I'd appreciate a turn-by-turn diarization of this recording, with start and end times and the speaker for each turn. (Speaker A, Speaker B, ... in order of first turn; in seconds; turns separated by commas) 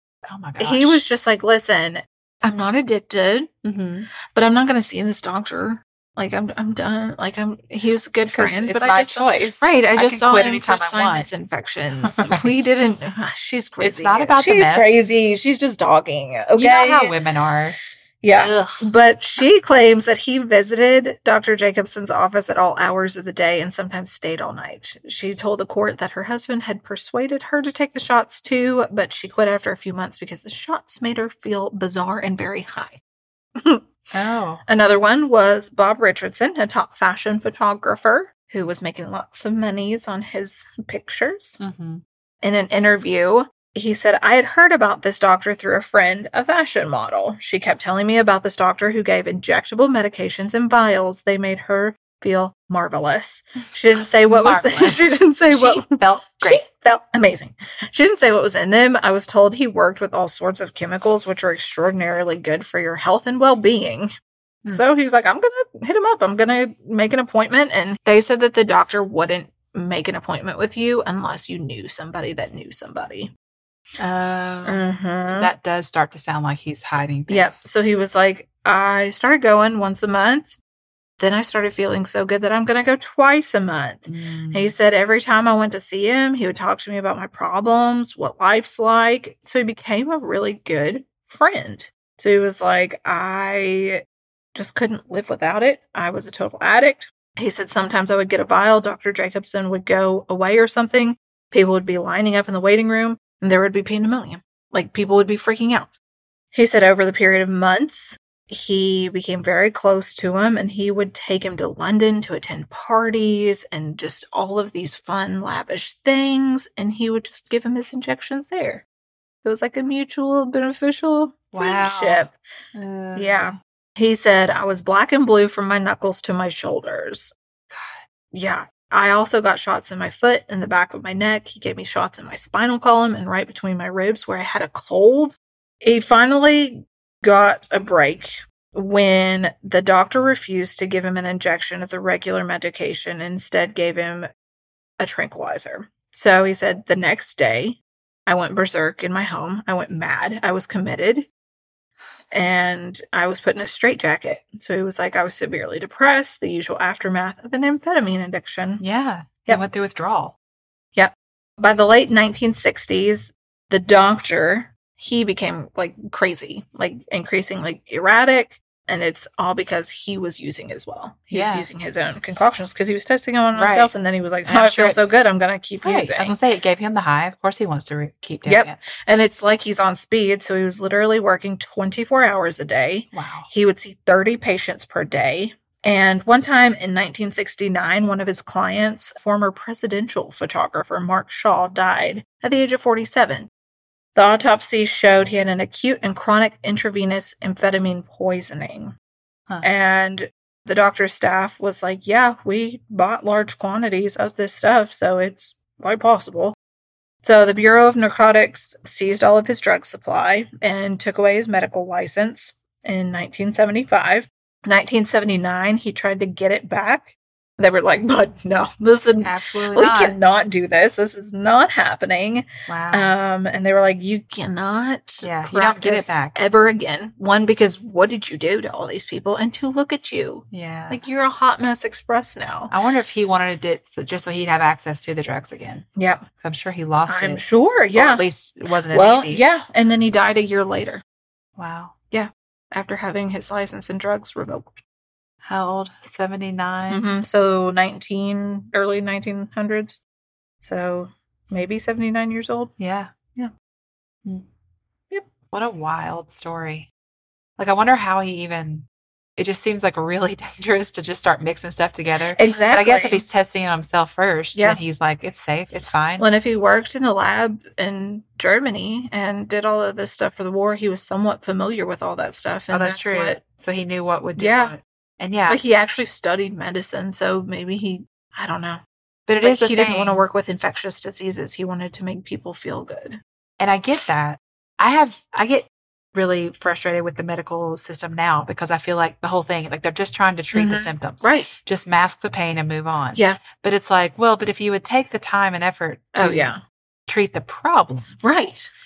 Speaker A: 0.2-1.0, Speaker B: 0.6-3.5, Speaker A: 3.6-4.1, Speaker B: 4.3-17.1, Speaker A: 8.3-11.3, Speaker A: 12.0-12.7, Speaker A: 13.8-14.8, Speaker A: 16.6-17.8, Speaker B: 18.2-33.0, Speaker A: 18.3-18.9, Speaker B: 33.6-33.9, Speaker A: 34.1-34.6, Speaker B: 34.6-41.6, Speaker A: 41.6-42.0, Speaker B: 42.4-64.1, Speaker A: 53.9-56.6, Speaker B: 64.7-73.3, Speaker A: 74.0-77.7, Speaker B: 74.6-75.5, Speaker B: 77.3-80.6, Speaker B: 81.2-105.9, Speaker A: 84.1-84.7, Speaker B: 106.5-118.8, Speaker B: 119.4-122.3, Speaker A: 121.5-123.5, Speaker B: 123.1-127.3, Speaker A: 127.7-128.0, Speaker B: 128.3-144.3, Speaker B: 145.0-151.3, Speaker B: 152.3-158.8, Speaker A: 158.8-160.3, Speaker B: 160.9-176.3, Speaker A: 171.3-171.7, Speaker A: 173.5-173.9, Speaker A: 174.5-175.0, Speaker A: 175.8-178.8, Speaker B: 178.4-193.5, Speaker A: 183.1-183.5, Speaker B: 194.1-198.9, Speaker B: 199.6-206.6, Speaker B: 207.2-232.7, Speaker A: 219.2-220.2, Speaker A: 222.7-223.1, Speaker A: 225.2-226.4, Speaker A: 230.5-231.0, Speaker A: 232.7-235.8, Speaker B: 236.0-236.3, Speaker A: 236.4-239.4, Speaker B: 237.1-238.2, Speaker B: 238.9-241.0, Speaker A: 241.6-241.9, Speaker B: 242.1-244.8, Speaker A: 245.4-247.0, Speaker B: 246.9-250.0, Speaker B: 250.6-252.7, Speaker A: 252.8-253.1, Speaker A: 255.5-256.9, Speaker A: 257.6-258.9, Speaker A: 259.4-266.2, Speaker B: 262.3-263.2, Speaker B: 264.5-264.8, Speaker B: 266.2-273.4, Speaker A: 272.7-275.6, Speaker B: 274.4-274.7, Speaker B: 275.5-278.8, Speaker A: 279.3-280.2, Speaker B: 279.4-283.2, Speaker A: 283.6-296.5, Speaker B: 290.5-291.5, Speaker B: 293.1-293.4, Speaker B: 296.1-296.6, Speaker A: 297.1-298.2, Speaker B: 298.2-298.7